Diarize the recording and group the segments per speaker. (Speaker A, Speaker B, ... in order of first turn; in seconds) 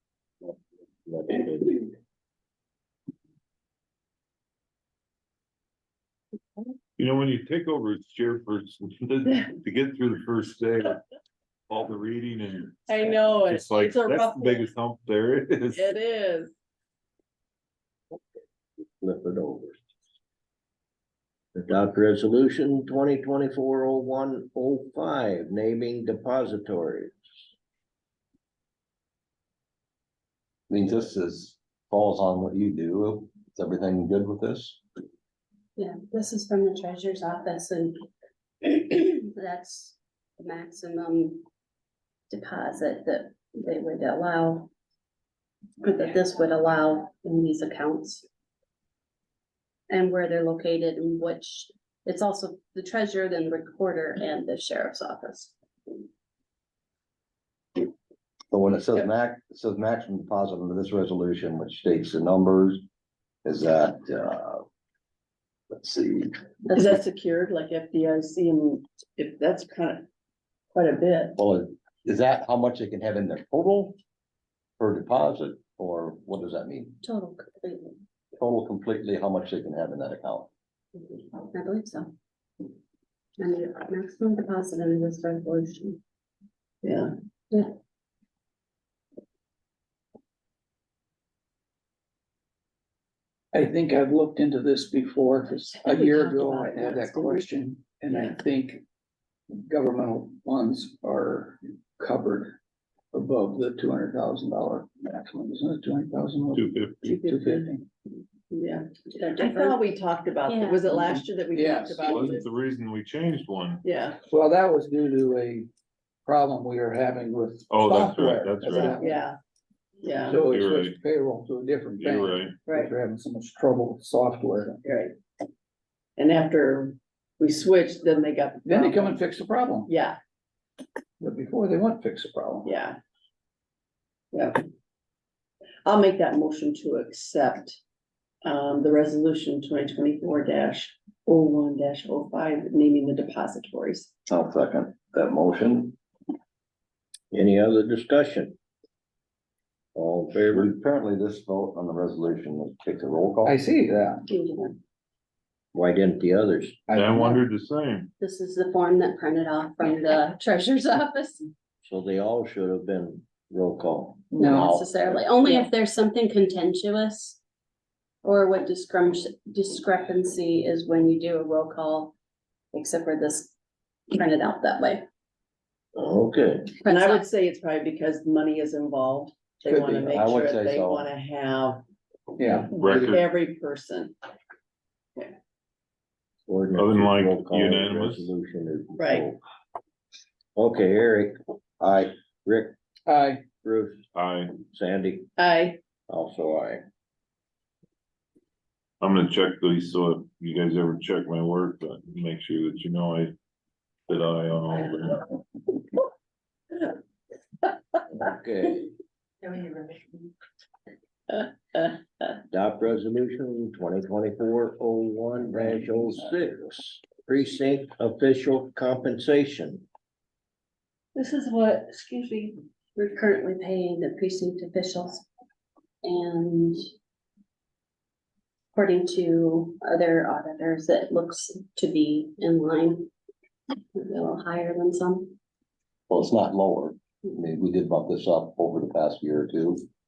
Speaker A: 1.1-1.8, 19.0-19.8, 21.6-27.1, 147.3-148.6, 149.9-150.7, 155.7-156.8, 161.8-164.8, 176.0-176.7, 186.5-189.4, 190.6-192.8, 193.6-194.0, 194.7-195.3, 196.1-196.8, 208.2-208.9, 212.5-219.9
Speaker B: 7.0-11.0, 11.7-15.9, 106.5-107.1, 112.0-113.8, 117.7-119.0, 120.5-121.0, 122.0-122.5, 156.9-158.1, 182.7-183.3, 186.7-188.3, 194.1-194.6, 199.0-203.3, 204.1-205.3
Speaker C: 12.9-14.6, 15.7-16.5, 66.7-70.0, 70.7-71.4, 86.8-87.1, 95.9-97.4, 98.1-98.4, 107.2-107.7, 108.5-112.5, 113.8-114.2, 119.0-119.4, 120.0-120.4, 122.7-122.9, 124.8-125.2, 126.2-129.2, 129.9-130.2, 132.7-133.0, 134.3-134.6, 135.8-137.8, 138.4-144.1, 176.7-181.8, 182.7-184.2, 189.0-189.3, 195.4-195.8, 221.2-222.5
Speaker D: 30.7-34.8, 58.5-62.8, 63.5-64.7, 65.7-66.3, 71.4-74.0, 74.8-77.0, 78.4-80.5, 144.3-146.0, 150.5-153.6, 180.1-181.1, 236.1-239.9
Speaker E: 35.8-38.0, 38.6-41.5, 42.3-44.7, 45.8-48.2, 49.9-55.5, 66.7-66.9, 77.0-78.0, 81.0-82.1, 83.4-86.0, 96.2-97.0, 109.1-109.8, 110.5-111.0, 154.3-154.8, 158.2-161.5, 164.4-167.4, 168.2-172.1, 172.7-173.5, 174.1-175.1, 176.8-177.2, 223.0-225.3, 226.0-226.8, 228.7-233.1, 233.9-235.3
Speaker F: 93.5-98.8, 99.5-102.6, 103.1-107.9, 111.5-112.2, 114.2-115.7, 116.2-119.2, 120.3-124.8, 128.7-129.9, 131.2-132.7, 153.4-154.2, 156.9-157.4, 164.3-164.7, 179.7-180.1, 182.4-183.2, 193.1-193.4